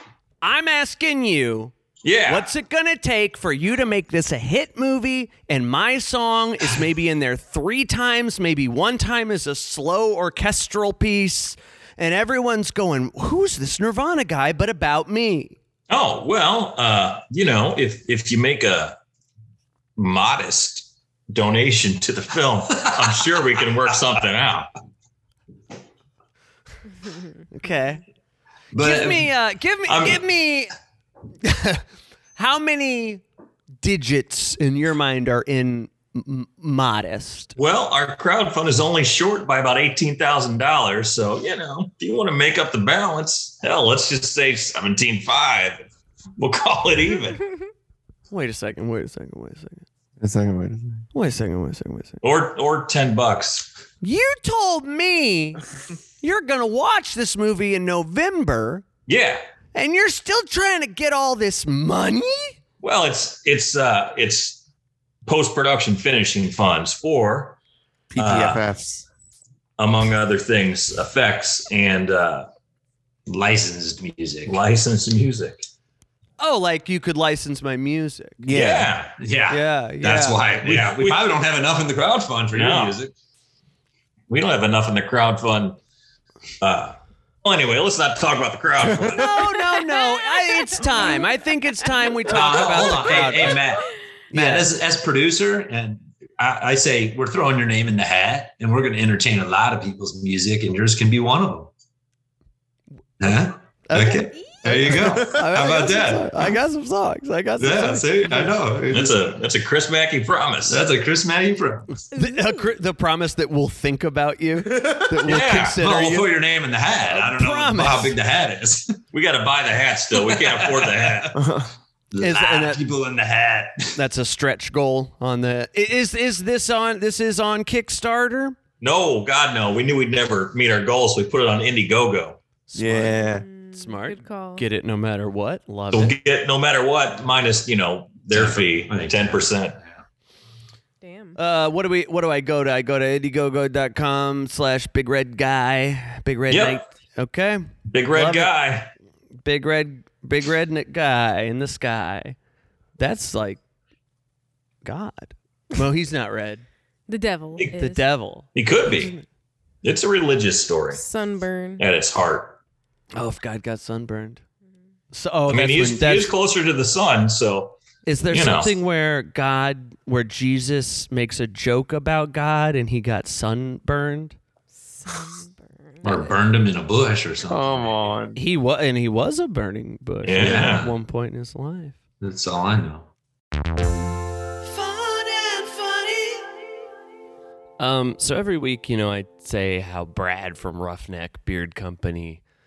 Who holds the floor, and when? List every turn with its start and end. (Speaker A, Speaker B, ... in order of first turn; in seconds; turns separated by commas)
Speaker A: 0.4-1.7, Speaker B: 2.0-2.5, Speaker A: 2.3-15.6, Speaker B: 15.9-19.0, Speaker B: 20.0-24.7, Speaker A: 27.5-28.0, Speaker C: 28.7-29.3, Speaker A: 28.8-30.7, Speaker B: 29.9-30.2, Speaker A: 31.4-31.8, Speaker A: 32.4-33.2, Speaker A: 33.8-37.5, Speaker B: 37.6-45.9, Speaker B: 46.4-47.5, Speaker A: 48.3-49.9, Speaker D: 50.2-51.0, Speaker A: 51.1-52.2, Speaker B: 52.2-53.7, Speaker A: 54.0-55.6, Speaker A: 56.2-58.9, Speaker B: 59.1-59.4, Speaker A: 59.7-62.6, Speaker B: 62.8-64.6, Speaker B: 65.3-67.6, Speaker D: 68.1-69.1, Speaker B: 68.2-68.6, Speaker B: 69.8-72.5, Speaker C: 73.3-74.6, Speaker B: 74.5-75.6, Speaker A: 76.4-78.4, Speaker D: 78.4-79.0, Speaker B: 78.5-79.2, Speaker C: 79.2-83.1, Speaker A: 79.5-80.5, Speaker B: 80.6-81.3, Speaker B: 82.5-83.0, Speaker B: 84.3-85.8, Speaker B: 86.6-89.5, Speaker A: 89.1-93.6, Speaker E: 89.6-91.3, Speaker C: 92.3-101.7, Speaker A: 94.3-94.7, Speaker C: 103.2-106.5, Speaker A: 103.9-108.5, Speaker C: 107.6-109.1, Speaker B: 108.9-110.9, Speaker C: 110.7-111.9, Speaker E: 112.1-112.7, Speaker A: 112.1-116.3, Speaker D: 114.7-115.2, Speaker C: 115.3-119.0, Speaker B: 115.3-115.8, Speaker A: 117.1-118.2, Speaker B: 119.1-121.4, Speaker C: 120.3-121.3, Speaker D: 121.3-121.7, Speaker C: 122.1-124.0, Speaker A: 122.2-122.8, Speaker A: 124.0-128.6, Speaker B: 128.8-132.4, Speaker A: 132.7-136.2, Speaker D: 132.8-133.4, Speaker E: 133.3-134.6, Speaker B: 135.9-139.8, Speaker C: 138.3-140.0, Speaker E: 141.0-141.4, Speaker A: 141.4-148.5, Speaker B: 146.5-146.8, Speaker B: 147.9-148.9, Speaker A: 149.4-152.4, Speaker A: 153.0-153.6, Speaker A: 154.8-156.7, Speaker E: 157.1-158.1, Speaker A: 157.7-158.5, Speaker B: 158.5-159.1, Speaker B: 159.8-161.0, Speaker E: 160.9-161.8, Speaker B: 161.8-162.6, Speaker A: 163.2-164.4, Speaker A: 165.1-166.3, Speaker B: 165.5-167.8, Speaker A: 168.1-174.4, Speaker B: 168.3-168.8, Speaker E: 174.9-176.3, Speaker C: 176.0-178.1, Speaker D: 177.4-178.4, Speaker A: 178.4-182.0, Speaker B: 180.2-180.9, Speaker C: 180.4-180.9, Speaker C: 182.2-183.1, Speaker A: 184.6-186.5, Speaker A: 187.8-192.4